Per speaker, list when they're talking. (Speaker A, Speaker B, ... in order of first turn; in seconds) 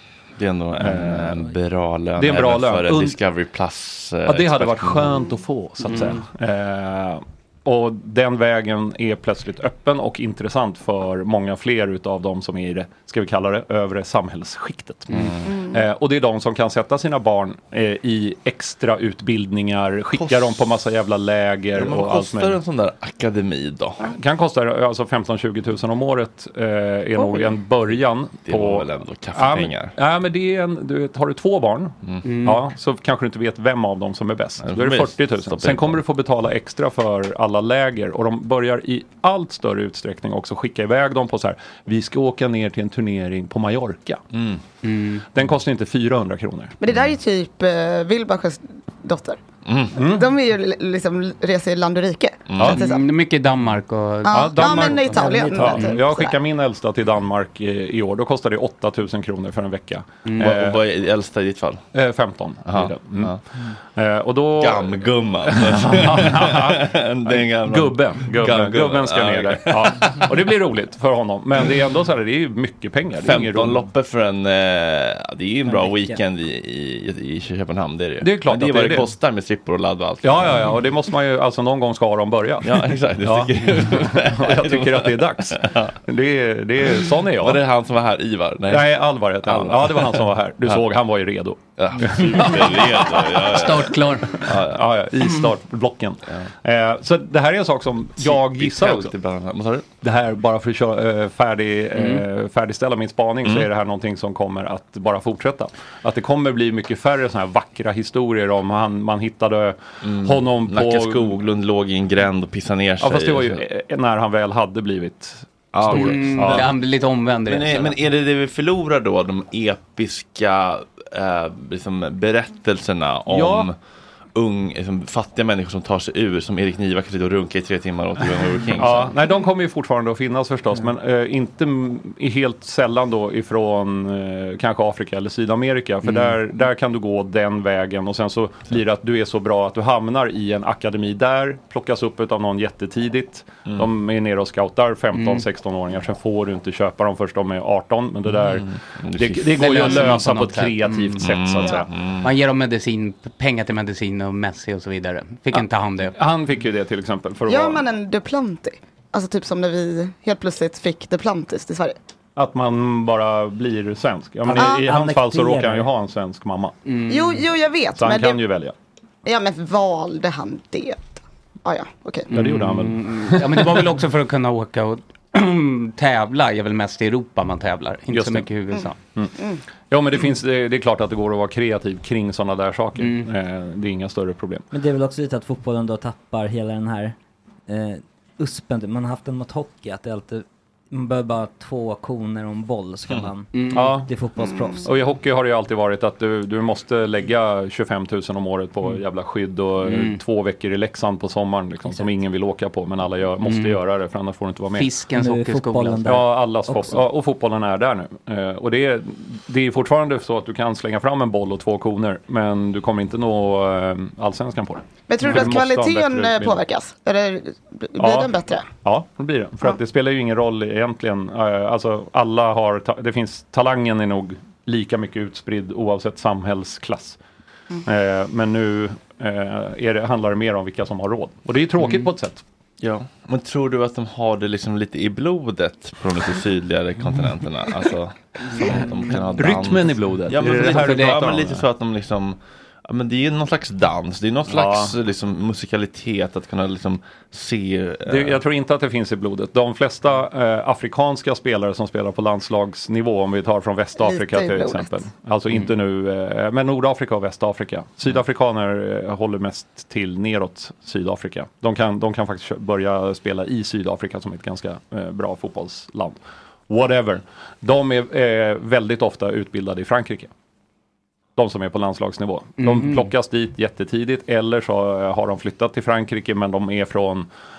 Speaker A: 0.4-5.3, 15.1-15.4, 20.1-20.7, 21.8-24.1, 28.4-29.9, 34.6-36.0, 44.3-44.6, 49.7-49.9, 52.5-52.8, 60.4-61.8, 62.7-63.4, 64.6-70.4, 73.2-80.7, 82.6-85.9, 87.4-90.8, 91.8-94.8, 98.2-99.9, 110.0-113.6, 115.7-116.8, 117.5-123.8, 124.3-129.1, 148.4-150.0, 151.2-152.3, 232.8-248.4
Speaker B: 0.8-1.4, 2.2-3.2, 4.3-22.6, 24.1-44.2, 45.4-46.7, 50.0-50.3, 54.3-60.8, 61.9-73.8, 78.2-79.1, 80.2-87.6, 88.7-92.9, 94.4-99.1, 100.0-111.3, 113.0-116.7, 123.3-123.7, 128.8-151.9, 156.2-157.8, 162.4-166.8, 168.0-168.7, 172.3-173.9, 178.1-178.5, 179.9-184.6, 193.7-194.1, 194.8-204.9, 206.1-216.6, 218.0-218.3, 218.8-227.2, 227.8-232.4, 238.6-241.7, 244.5-244.9, 248.1-270.3, 271.4-277.3
Speaker C: 5.9-6.2, 32.2-32.6, 44.8-45.2, 52.7-55.1, 93.4-94.4, 102.0-102.2, 115.9-118.0, 136.1-136.3, 145.1-145.4, 149.5-151.2, 152.2-156.2, 166.8-167.4, 172.3-179.0, 183.0-183.3, 193.5-194.0, 199.8-200.2, 203.4-203.8, 204.7-206.1, 231.8-232.1, 240.6-241.2, 272.6-273.1
Speaker D: 46.8-49.4, 50.0-53.0, 54.2-56.4, 157.5-162.0, 164.6-164.8, 167.1-168.4, 169.2-172.3, 194.4-194.9, 215.1-218.7, 254.0-255.0
Speaker E: 55.1-55.8, 75.7-76.2, 164.4-165.9, 184.7-187.2, 187.7-194.9, 205.2-207.0